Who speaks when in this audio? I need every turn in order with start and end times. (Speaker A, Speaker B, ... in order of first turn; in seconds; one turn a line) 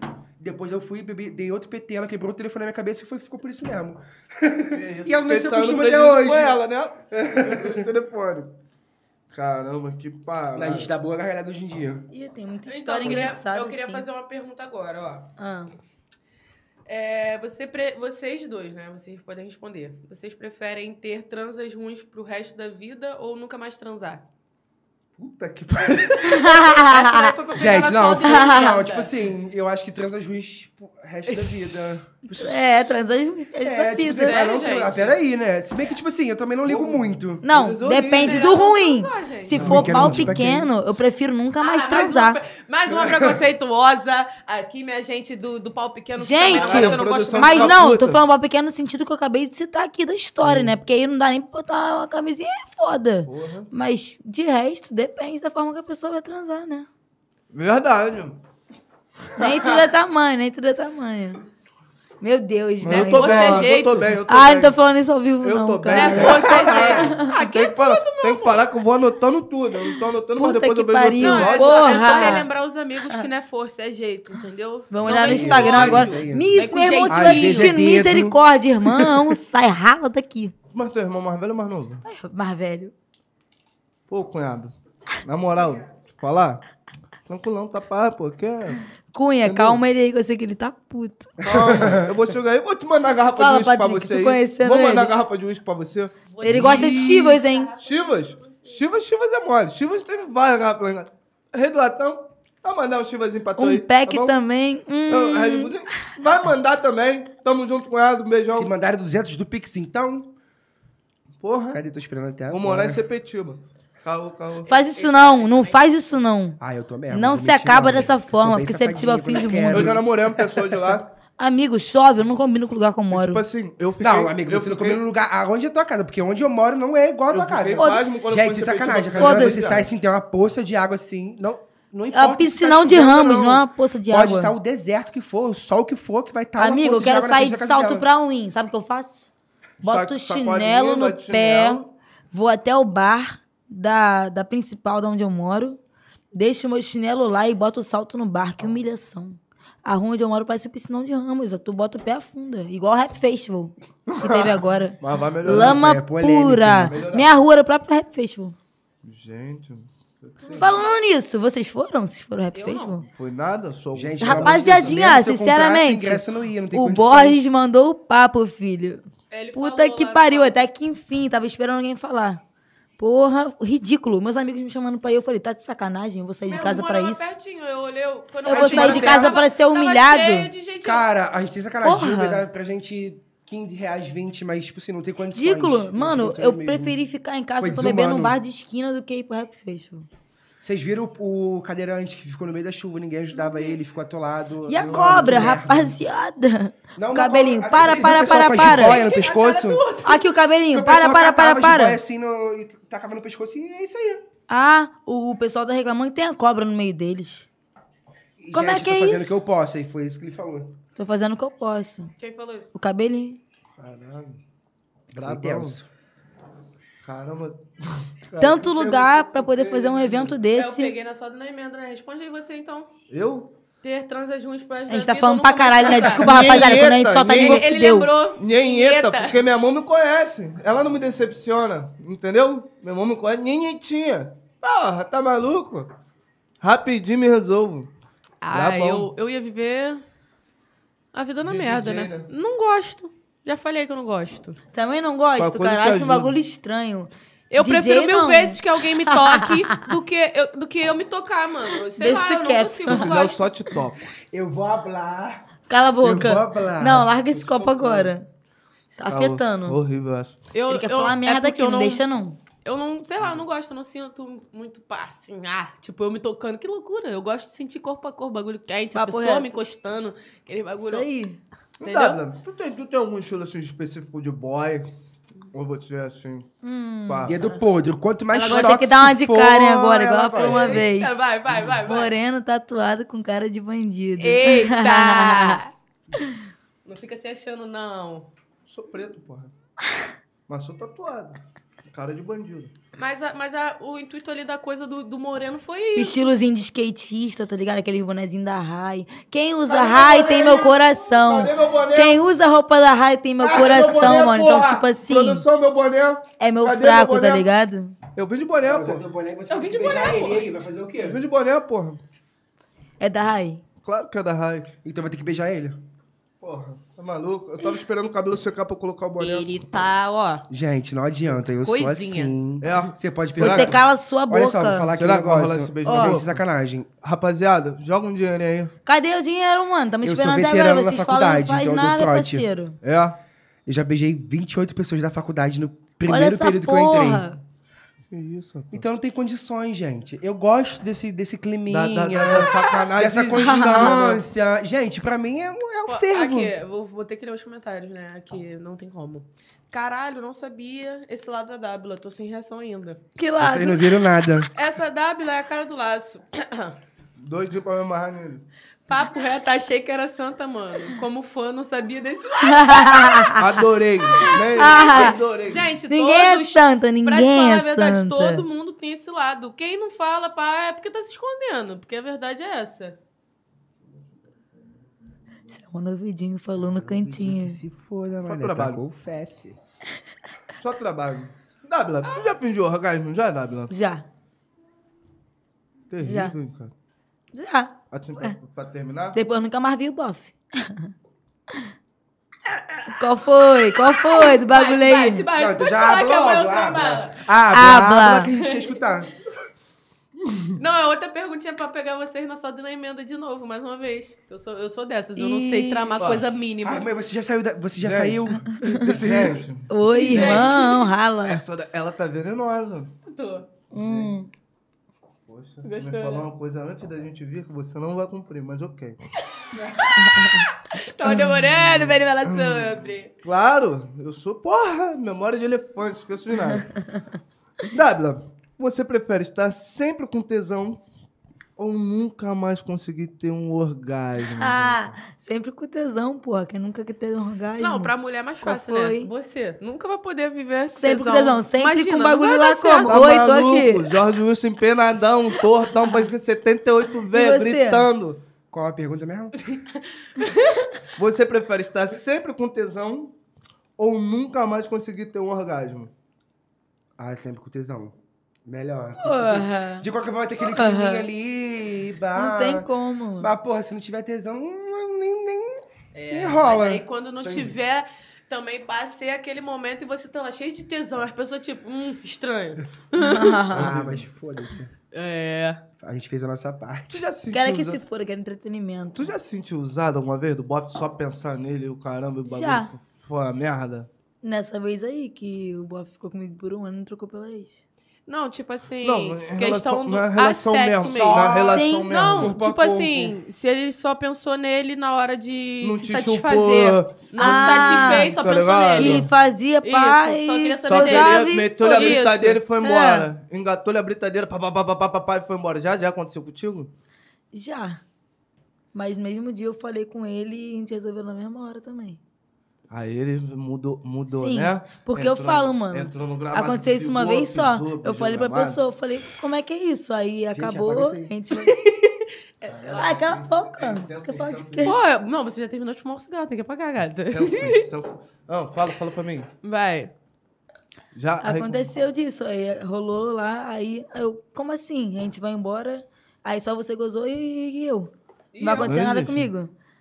Speaker A: 0.4-6.6
Speaker B: 4.7-8.5
Speaker A: 7.3-7.9
Speaker B: 9.3-10.9
Speaker A: 10.5-12.1
Speaker C: 12.1-14.1
Speaker D: 12.7-15.3
Speaker C: 15.4-15.7
Speaker D: 16.9-24.2
Speaker B: 25.2-26.5
Speaker C: 26.2-27.3
Speaker D: 26.6-29.1
Speaker A: 27.5-33.0
Speaker D: 31.3-32.0
Speaker C: 32.3-34.4
Speaker A: 33.6-37.4
Speaker D: 34.0-35.1
Speaker B: 36.6-38.6
Speaker C: 37.4-42.4
Speaker D: 38.1-39.7
Speaker A: 39.5-40.7
Speaker B: 39.5-40.4
Speaker D: 41.6-47.8
Speaker A: 43.0-43.3
Speaker C: 46.2-56.9
Speaker B: 46.5-48.2
Speaker B: 50.4-50.7
Speaker B: 53.2-53.7
Speaker B: 57.5-58.4
Speaker B: 59.3-59.9
Speaker C: 59.4-61.4
Speaker C: 62.2-63.7
Speaker B: 62.8-64.8
Speaker D: 62.9-64.1
Speaker C: 64.3-67.3
Speaker B: 65.4-72.4
Speaker D: 65.9-68.7
Speaker A: 66.1-67.1
Speaker C: 70.3-72.5
Speaker D: 71.2-77.8
Speaker C: 74.9-80.5
Speaker A: 75.0-79.3
Speaker B: 75.6-76.0
Speaker B: 80.7-82.0
Speaker C: 82.0-82.9
Speaker B: 84.1-86.6
Speaker B: 87.3-88.8
Speaker C: 89.1-91.3
Speaker B: 89.4-89.8
Speaker B: 91.4-104.3
Speaker A: 91.4-92.1
Speaker C: 93.3-95.1
Speaker D: 96.3-98.8
Speaker C: 96.4-97.7
Speaker C: 103.6-106.1
Speaker B: 105.1-108.7
Speaker A: 108.5-110.3
Speaker B: 111.4-111.8
Speaker A: 111.7-113.0
Speaker B: 112.5-114.7
Speaker D: 114.7-115.8
Speaker C: 114.7-116.6
Speaker A: 116.6-121.0
Speaker C: 117.1-120.0
Speaker B: 119.7-121.1
Speaker C: 121.4-123.4
Speaker B: 123.1-125.0
Speaker A: 124.0-138.1
Speaker B: 127.3-129.9
Speaker C: 127.8-128.2
Speaker C: 129.1-129.6
Speaker C: 132.1-134.5
Speaker C: 136.6-139.3
Speaker B: 139.8-141.9
Speaker C: 139.8-145.8
Speaker C: 146.3-158.6
Speaker B: 154.1-156.0
Speaker A: 155.4-157.0
Speaker B: 156.8-157.3
Speaker B: 159.0-160.7
Speaker D: 160.4-161.0
Speaker C: 160.5-163.1
Speaker D: 162.5-163.0
Speaker B: 163.1-165.1
Speaker A: 163.9-167.4
Speaker C: 164.2-172.4
Speaker D: 169.3-170.6
Speaker C: 173.0-177.3
Speaker D: 176.5-181.1
Speaker C: 178.4-180.5
Speaker A: 178.5-179.4
Speaker A: 180.8-187.0
Speaker C: 181.8-182.4
Speaker C: 185.3-190.1
Speaker A: 187.6-188.3
Speaker A: 190.6-196.0
Speaker C: 194.7-199.0
Speaker A: 196.9-199.8
Speaker D: 197.8-200.2
Speaker C: 200.0-202.0
Speaker A: 200.7-204.2
Speaker C: 204.5-207.5
Speaker A: 208.4-210.8
Speaker C: 208.5-209.4
Speaker C: 210.9-212.1
Speaker D: 212.2-212.7
Speaker C: 212.7-213.4
Speaker A: 213.8-214.4
Speaker A: 215.1-215.9
Speaker B: 215.1-215.8
Speaker B: 217.0-220.4
Speaker C: 218.4-220.9
Speaker D: 220.5-222.9
Speaker B: 223.1-223.5
Speaker D: 223.8-229.4
Speaker C: 224.9-228.1
Speaker B: 225.8-227.7
Speaker B: 228.3-235.9
Speaker B: 236.6-237.9
Speaker D: 238.4-240.0
Speaker B: 238.5-239.1
Speaker D: 241.1-244.6
Speaker B: 241.4-242.3
Speaker C: 244.7-249.9
Speaker B: 245.4-246.3
Speaker D: 247.5-253.4
Speaker C: 251.9-253.2
Speaker B: 252.9-254.0
Speaker A: 254.3-255.4
Speaker C: 255.7-258.2
Speaker A: 256.0-257.1
Speaker B: 257.3-258.1
Speaker C: 259.0-259.8
Speaker B: 259.1-260.4
Speaker D: 260.5-262.0
Speaker C: 260.7-262.4
Speaker D: 262.6-271.1
Speaker C: 268.9-269.5
Speaker C: 270.8-271.4
Speaker B: 271.8-274.9
Speaker D: 271.8-272.2
Speaker B: 275.5-276.5
Speaker C: 276.6-277.3
Speaker B: 277.1-277.4
Speaker A: 277.2-280.8
Speaker D: 278.3-278.8
Speaker C: 278.4-281.2
Speaker B: 280.3-280.8
Speaker D: 280.4-282.1
Speaker C: 281.8-285.6
Speaker D: 284.2-285.7
Speaker D: 286.8-288.3
Speaker B: 288.7-289.5
Speaker B: 290.5-292.7
Speaker D: 292.9-296.2
Speaker C: 295.9-305.5
Speaker B: 299.7-302.2
Speaker B: 303.4-307.5
Speaker A: 303.7-304.3
Speaker C: 306.4-307.9
Speaker B: 308.1-309.0
Speaker A: 308.6-311.2
Speaker D: 309.5-310.5
Speaker B: 311.0-312.0
Speaker C: 313.0-313.6
Speaker B: 313.8-314.7
Speaker A: 314.8-315.8
Speaker B: 316.4-319.5
Speaker D: 319.2-320.4
Speaker A: 320.5-326.9
Speaker D: 321.6-322.3
Speaker B: 322.6-323.8
Speaker C: 323.4-324.9
Speaker B: 324.9-326.4
Speaker C: 325.8-326.2
Speaker B: 327.0-328.7
Speaker C: 328.9-332.8
Speaker A: 330.0-332.5
Speaker B: 332.8-333.2
Speaker A: 333.6-337.3
Speaker C: 336.1-337.4
Speaker B: 338.1-338.8
Speaker A: 338.7-346.5
Speaker B: 341.7-344.2
Speaker C: 343.4-344.0
Speaker D: 345.9-353.0
Speaker C: 353.2-354.2
Speaker A: 353.4-354.5
Speaker D: 354.5-356.8
Speaker B: 357.2-358.4
Speaker D: 358.9-363.4
Speaker C: 362.4-363.4
Speaker B: 363.4-365.7
Speaker D: 364.1-373.0
Speaker C: 364.2-365.2
Speaker C: 365.9-368.4
Speaker C: 375.5-377.6
Speaker A: 376.6-379.6
Speaker B: 378.2-378.8
Speaker B: 380.6-383.7
Speaker C: 383.7-384.0
Speaker B: 385.9-386.7
Speaker C: 386.0-386.4
Speaker C: 387.3-388.4
Speaker B: 387.9-389.2
Speaker C: 389.1-390.9
Speaker C: 392.9-395.3
Speaker D: 394.0-397.2
Speaker A: 395.3-399.1
Speaker C: 397.5-398.3
Speaker D: 398.4-398.8
Speaker D: 400.6-406.9
Speaker C: 405.1-406.0
Speaker B: 406.0-406.3
Speaker A: 406.6-409.5
Speaker B: 407.8-408.2
Speaker B: 408.8-410.6
Speaker C: 409.7-411.4
Speaker D: 409.9-410.9
Speaker B: 411.2-412.9
Speaker D: 413.1-413.5
Speaker B: 413.7-414.1
Speaker C: 413.7-414.3
Speaker B: 415.3-419.0
Speaker D: 415.6-416.3
Speaker D: 419.4-423.1
Speaker C: 420.0-420.4
Speaker B: 421.3-426.7
Speaker C: 426.5-427.0
Speaker B: 427.7-430.8
Speaker B: 431.6-434.9
Speaker C: 434.3-439.1
Speaker D: 437.6-443.1
Speaker C: 440.7-443.9
Speaker B: 442.9-448.2
Speaker C: 447.1-447.9
Speaker A: 448.5-449.6
Speaker D: 449.7-450.7
Speaker B: 450.9-453.1
Speaker B: 453.8-455.9
Speaker A: 457.0-462.7
Speaker C: 459.0-459.9
Speaker C: 460.4-461.1
Speaker C: 462.1-463.3
Speaker A: 463.2-467.4
Speaker D: 465.9-473.4
Speaker B: 467.2-467.5
Speaker C: 472.9-473.7
Speaker B: 473.5-474.1
Speaker A: 473.5-474.7
Speaker D: 474.9-475.6
Speaker A: 475.8-477.0
Speaker B: 476.9-477.8
Speaker C: 477.3-479.1
Speaker B: 478.9-483.9
Speaker C: 482.2-482.7
Speaker C: 484.2-487.6
Speaker D: 488.1-499.1
Speaker B: 488.8-492.4
Speaker A: 490.8-493.1
Speaker C: 491.5-491.9
Speaker B: 495.6-499.1
Speaker C: 497.2-498.1
Speaker C: 498.7-503.1
Speaker D: 499.6-502.4
Speaker B: 500.6-506.7
Speaker C: 507.3-507.8
Speaker C: 508.7-512.0
Speaker B: 512.7-518.6
Speaker C: 514.1-522.0
Speaker A: 520.3-521.1
Speaker D: 522.4-523.0
Speaker B: 522.4-524.7
Speaker C: 522.8-524.8
Speaker D: 524.6-527.7
Speaker B: 527.1-529.3
Speaker D: 529.4-529.9
Speaker B: 530.9-531.7
Speaker C: 531.2-539.5
Speaker D: 538.3-538.8
Speaker B: 538.6-539.3